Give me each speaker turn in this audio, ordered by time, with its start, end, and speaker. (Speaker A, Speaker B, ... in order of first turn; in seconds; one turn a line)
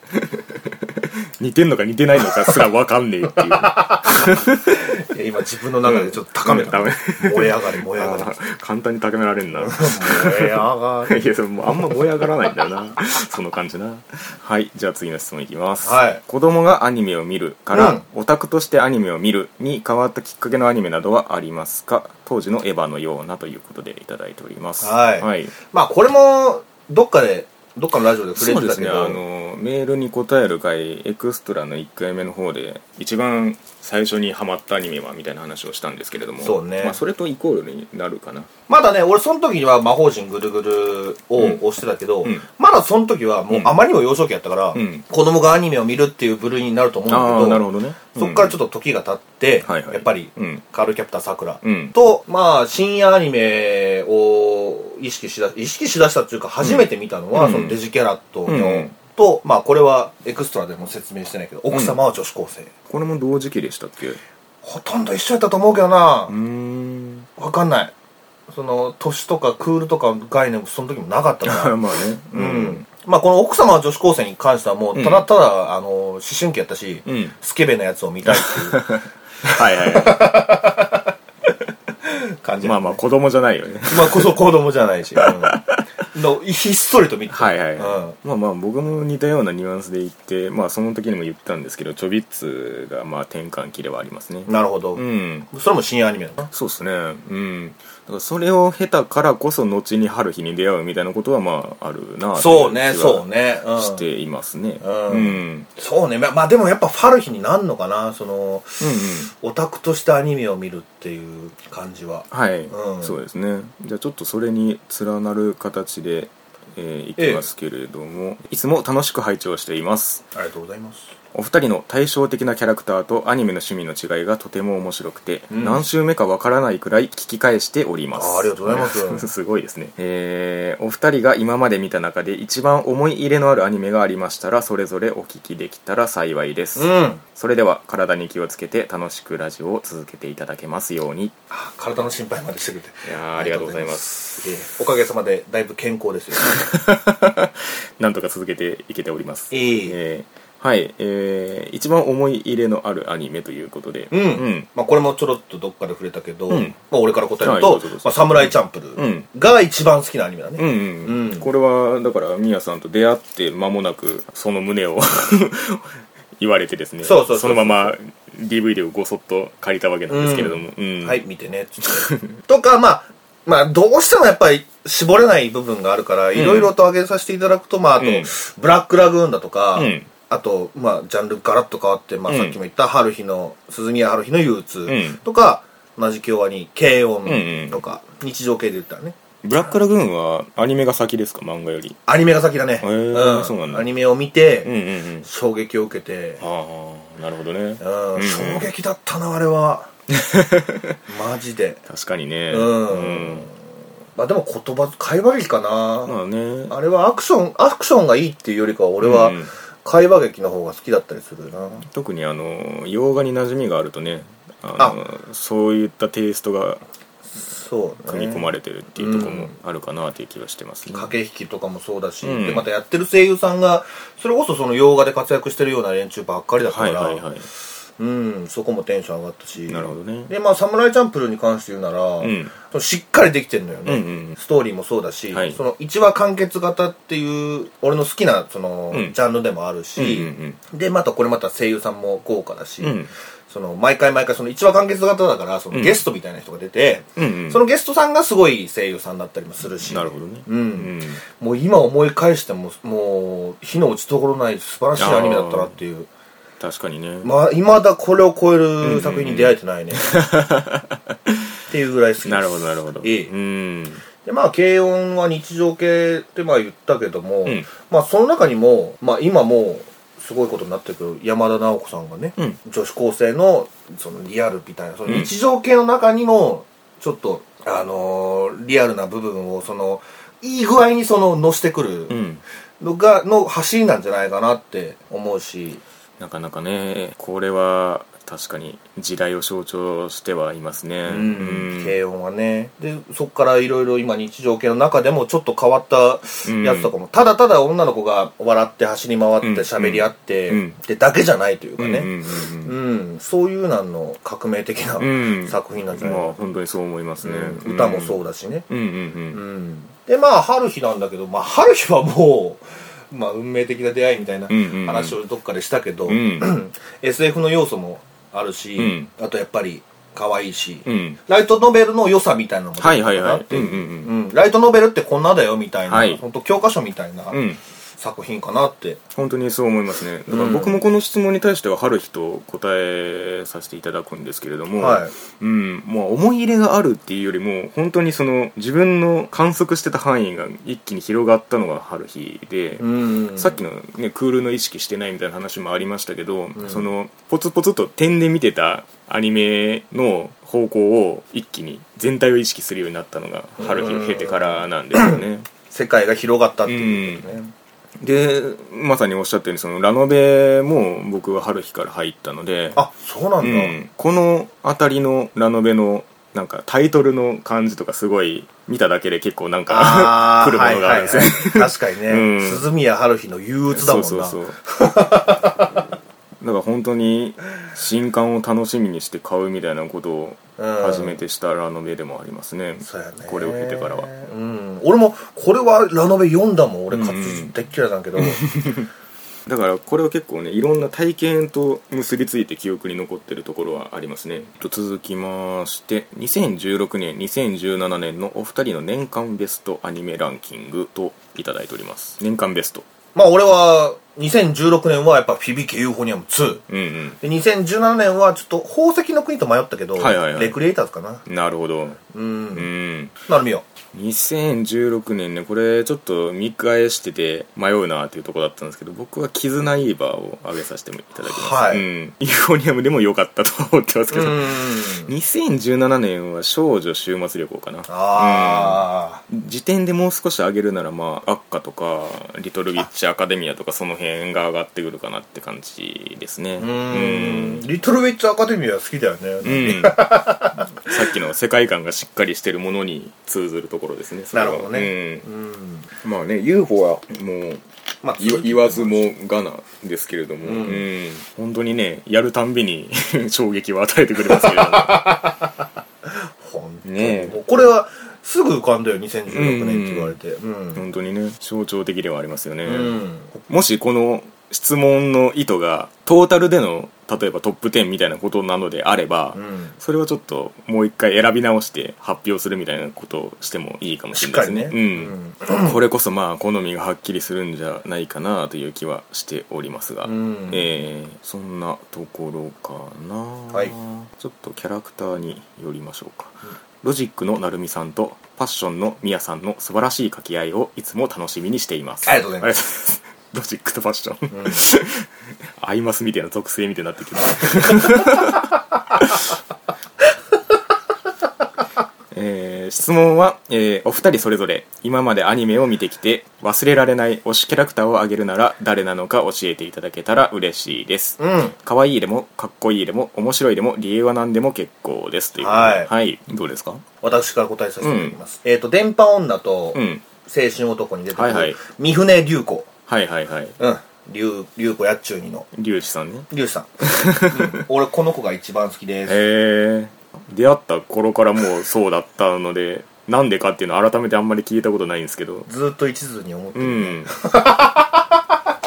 Speaker A: 0.1-5.0
Speaker B: 2.2-2.6
Speaker B: 3.3-8.3
Speaker A: 5.8-25.5
Speaker B: 9.6-12.0
Speaker B: 15.8-16.2
Speaker B: 17.7-18.0
Speaker B: 24.8-29.2
Speaker A: 28.4-38.5
Speaker B: 36.4-37.0
Speaker B: 38.7-47.6
Speaker A: 43.5-43.7
Speaker A: 44.7-45.0
Speaker A: 47.1-48.5
Speaker B: 48.1-62.7
Speaker A: 49.6-50.6
Speaker A: 51.6-51.9
Speaker A: 56.6-57.8
Speaker A: 58.5-58.9
Speaker A: 61.7-62.0
Speaker A: 62.9-64.2
Speaker B: 64.6-66.3
Speaker A: 66.3-67.3
Speaker B: 67.4-67.9
Speaker B: 68.5-71.7
Speaker A: 71.4-72.8
Speaker B: 72.3-78.8
Speaker A: 74.9-75.2
Speaker A: 77.0-77.3
Speaker A: 78.2-80.5
Speaker B: 79.4-81.1
Speaker B: 82.0-83.0
Speaker A: 82.6-84.3
Speaker B: 83.9-88.1
Speaker A: 85.2-85.8
Speaker A: 87.3-95.5
Speaker B: 94.5-96.5
Speaker A: 96.5-105.7
Speaker B: 102.3-104.0
Speaker B: 104.8-113.1
Speaker A: 108.8-109.3
Speaker A: 112.3-120.2
Speaker B: 117.2-117.4
Speaker B: 120.3-121.1
Speaker A: 121.3-141.3
Speaker B: 125.5-125.8
Speaker B: 128.1-129.3
Speaker B: 136.8-137.2
Speaker B: 141.5-146.5
Speaker A: 143.0-144.5
Speaker A: 146.4-154.7
Speaker B: 149.5-149.9
Speaker B: 154.1-161.4
Speaker A: 156.5-156.7
Speaker A: 157.4-159.3
Speaker A: 160.6-165.8
Speaker A: 166.4-171.2
Speaker B: 167.0-167.9
Speaker B: 170.1-189.2
Speaker A: 171.9-172.4
Speaker A: 176.3-176.7
Speaker A: 178.0-178.3
Speaker A: 179.8-180.1
Speaker A: 182.3-182.6
Speaker A: 184.8-185.2
Speaker A: 187.2-187.8
Speaker A: 189.4-192.0
Speaker B: 192.1-194.7
Speaker A: 192.8-193.9
Speaker A: 194.6-195.3
Speaker B: 195.2-196.4
Speaker A: 196.4-198.7
Speaker B: 197.8-199.9
Speaker A: 200.1-201.0
Speaker B: 201.1-201.8
Speaker A: 201.9-203.5
Speaker B: 202.5-203.5
Speaker B: 204.2-206.1
Speaker A: 206.0-206.8
Speaker B: 206.7-211.8
Speaker A: 209.0-209.5
Speaker A: 211.8-216.8
Speaker B: 217.3-219.5
Speaker A: 218.1-221.1
Speaker B: 220.9-227.2
Speaker A: 222.2-222.7
Speaker A: 226.7-227.4
Speaker B: 228.0-256.1
Speaker A: 229.7-230.3
Speaker A: 232.2-232.5
Speaker A: 233.8-234.4
Speaker A: 235.3-235.6
Speaker A: 239.9-240.6
Speaker A: 242.8-243.1
Speaker A: 245.7-246.0
Speaker A: 247.2-247.6
Speaker A: 249.8-251.2
Speaker A: 255.0-255.8
Speaker A: 256.6-257.3
Speaker B: 257.2-260.1
Speaker A: 258.8-261.4
Speaker B: 261.7-263.3
Speaker A: 262.2-264.0
Speaker B: 264.2-282.1
Speaker A: 275.1-275.3
Speaker A: 282.1-282.4
Speaker B: 282.8-285.8
Speaker A: 286.2-291.9
Speaker B: 291.1-302.1
Speaker A: 296.4-296.9
Speaker A: 299.4-300.8
Speaker A: 301.8-302.7
Speaker B: 302.6-306.4
Speaker A: 305.0-309.4
Speaker B: 307.2-308.6
Speaker B: 309.3-327.4
Speaker A: 314.5-315.2
Speaker A: 316.1-316.5
Speaker A: 318.8-319.1
Speaker A: 320.9-321.2
Speaker A: 322.8-324.1
Speaker A: 325.9-326.2
Speaker A: 327.3-327.6
Speaker B: 328.0-329.0
Speaker A: 329.1-355.5
Speaker B: 330.3-330.8
Speaker B: 334.8-335.1
Speaker B: 342.8-343.6
Speaker B: 346.6-346.8
Speaker B: 353.6-357.5
Speaker A: 356.7-357.3
Speaker A: 358.0-362.8
Speaker B: 362.7-363.8
Speaker A: 363.4-372.6
Speaker B: 369.7-375.8
Speaker A: 373.7-374.6
Speaker A: 376.4-384.1
Speaker B: 380.6-381.2
Speaker B: 382.8-388.4
Speaker A: 386.9-387.5
Speaker A: 388.2-388.9
Speaker A: 389.5-402.8
Speaker B: 403.1-406.6
Speaker A: 406.7-407.2
Speaker B: 407.2-411.2
Speaker A: 410.0-410.6
Speaker A: 411.2-412.0
Speaker B: 412.1-412.7
Speaker A: 412.5-413.1
Speaker B: 413.2-413.6
Speaker A: 413.9-437.7
Speaker B: 421.2-421.8
Speaker B: 424.1-425.1
Speaker B: 427.9-429.2
Speaker B: 436.6-440.9
Speaker A: 439.4-445.2
Speaker B: 444.3-445.9
Speaker A: 446.0-447.6
Speaker B: 448.0-449.1
Speaker A: 448.2-455.1
Speaker B: 450.4-450.9
Speaker B: 454.3-460.8
Speaker A: 456.8-457.4
Speaker A: 459.3-460.1
Speaker A: 460.7-495.1
Speaker B: 462.6-463.4
Speaker B: 469.3-469.7
Speaker B: 474.1-475.8
Speaker B: 480.0-480.6
Speaker B: 492.0-492.5
Speaker B: 494.3-494.6
Speaker A: 495.6-499.3
Speaker A: 502.1-516.8
Speaker B: 511.2-511.5
Speaker B: 515.4-515.9
Speaker B: 517.0-522.7
Speaker A: 517.8-518.1
Speaker A: 519.7-520.0
Speaker A: 521.1-521.6
Speaker A: 522.9-523.5
Speaker B: 523.6-525.5
Speaker A: 525.5-526.3
Speaker B: 526.3-529.2
Speaker A: 526.8-527.6
Speaker A: 529.1-535.5
Speaker B: 535.5-538.2
Speaker A: 536.5-537.1